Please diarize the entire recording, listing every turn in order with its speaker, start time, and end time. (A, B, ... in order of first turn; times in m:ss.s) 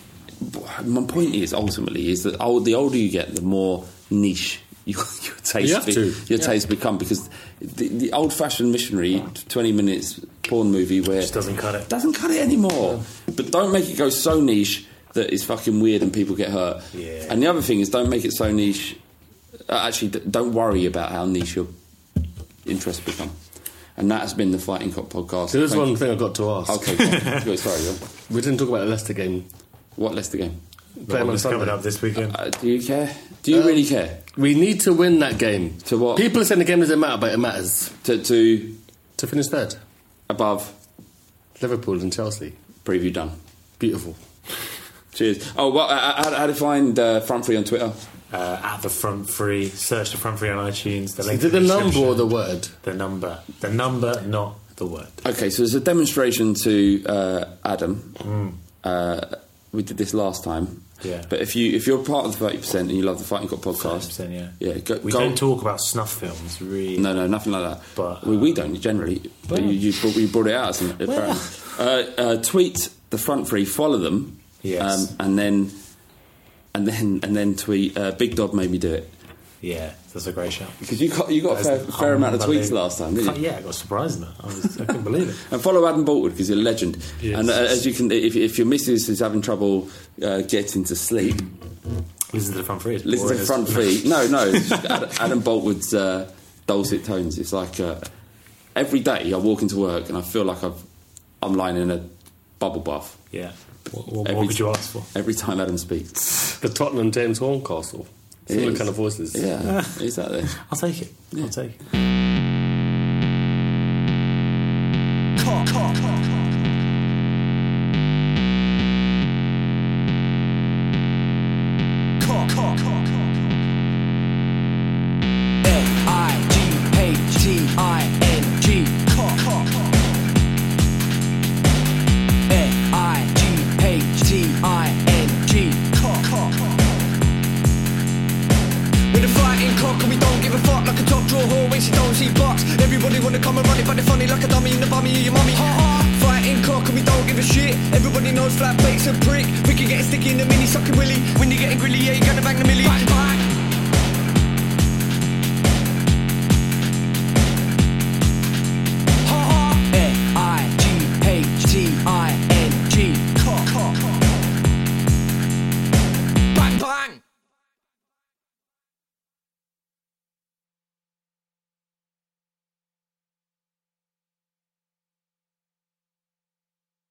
0:00.4-0:11.3 A
0:05.6-0:06.5 B
0:11.2-0:11.9 C
0:11.9-0:19.0 A
0:16.9-0:17.4 C
0:19.7-0:21.7 A
0:22.6-0:23.4 A
0:24.0-0:26.0 A
0:25.5-0:27.0 B
0:26.6-0:28.0 A
0:27.1-0:27.4 C
0:28.3-0:29.5 B
0:30.0-0:30.6 A
0:31.0-0:32.4 C
0:31.0-0:31.8 B
0:32.2-0:34.2 A
0:33.5-0:37.9 B
0:35.8-0:36.3 A
0:38.0-0:38.8 A
0:39.2-0:39.8 B
0:40.3-0:40.7 A
0:41.6-0:42.6 B
0:42.8-0:43.4 A
0:43.8-0:44.2 B
0:45.1-0:48.0 A
0:48.3-0:52.3 C
0:51.3-0:52.7 B
0:52.8-0:55.2 C
0:55.2-0:58.2 A
0:58.2-0:58.6 C
0:58.8-1:05.4 A
1:01.0-1:01.3 C
1:03.8-1:07.1 C
1:07.0-1:15.8 A
1:07.9-1:08.5 C
1:09.5-1:09.8 C
1:11.0-1:11.5 C
1:14.6-1:15.1 C
1:16.7-1:19.1 A
1:19.6-1:20.8 C
1:20.8-1:23.4 A
1:21.5-1:25.4 C
1:25.4-1:31.5 A
1:27.2-1:27.6 C
1:32.3-1:34.0 C
1:33.0-1:38.1 A
1:34.5-1:34.9 C
1:38.7-1:40.8 A
1:41.4-1:43.2 A
1:43.3-1:45.1 C
1:44.2-1:46.4 A
1:46.6-1:49.5 B
1:48.5-1:50.6 A
1:49.6-1:49.9 C
1:50.6-1:51.8 C
1:55.4-1:56.2 D
2:02.2-2:03.1 D
2:05.6-2:09.9 D
2:12.5-2:17.0 D
2:19.1-2:33.5 D
2:39.2-2:44.3 D
2:46.5-2:47.2 D